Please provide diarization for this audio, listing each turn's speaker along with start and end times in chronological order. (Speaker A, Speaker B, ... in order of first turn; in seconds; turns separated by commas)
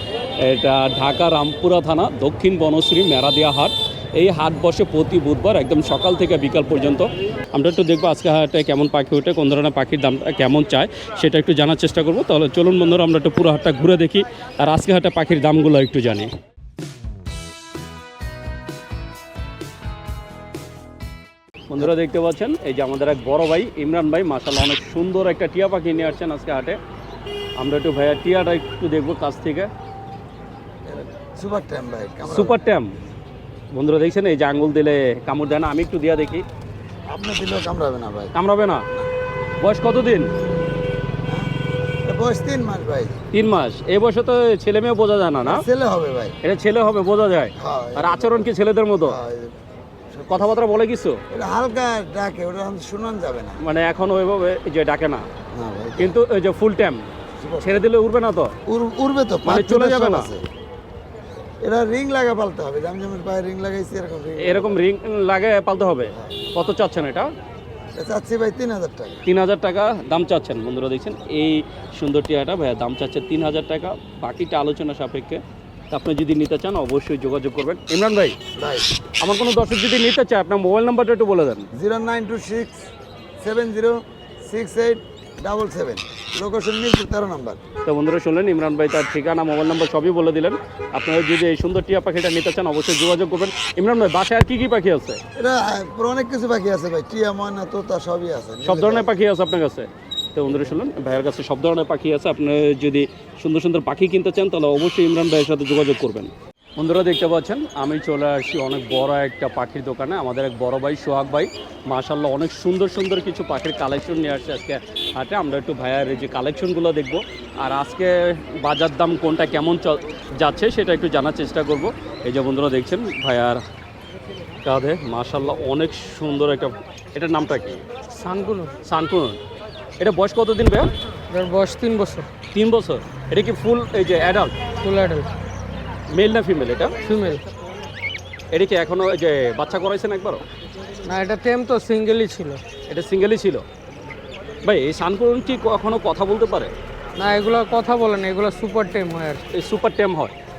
Speaker A: 0.4-16.3, Speaker A: 21.7-26.8, Speaker A: 27.6-29.7, Speaker B: 30.9-32.6, Speaker A: 32.3-32.9, Speaker A: 33.7-36.5, Speaker B: 37.1-38.3, Speaker A: 38.3-38.8, Speaker A: 39.6-40.3, Speaker B: 42.0-43.2, Speaker A: 43.3-45.6, Speaker B: 45.5-46.4, Speaker A: 46.4-49.2, Speaker B: 47.6-48.5, Speaker B: 49.0-49.6, Speaker B: 50.1-50.5, Speaker A: 50.3-51.2, Speaker B: 51.3-53.6, Speaker A: 53.6-55.2, Speaker B: 55.5-56.1, Speaker A: 56.0-57.0, Speaker B: 57.4-57.8, Speaker A: 57.6-58.5, Speaker B: 58.6-60.5, Speaker A: 59.4-60.3, Speaker B: 61.6-64.7, Speaker A: 64.4-67.3, Speaker B: 68.0-69.2, Speaker A: 69.3-78.4, Speaker B: 78.5-78.9, Speaker A: 79.2-81.7, Speaker B: 81.7-82.9, Speaker B: 83.4-87.6, Speaker A: 87.8-95.2, Speaker B: 95.3-99.1, Speaker A: 98.6-123.6, Speaker A: 124.7-127.8, Speaker C: 128.2-128.7, Speaker A: 128.8-129.4, Speaker A: 130.0-130.9, Speaker C: 131.3-132.3, Speaker A: 132.5-134.6, Speaker C: 134.8-135.3, Speaker A: 136.1-136.9, Speaker C: 137.0-137.4, Speaker A: 138.5-140.4, Speaker C: 141.1-142.6, Speaker A: 142.9-143.6, Speaker A: 144.6-146.7, Speaker C: 147.2-149.4, Speaker A: 149.5-150.3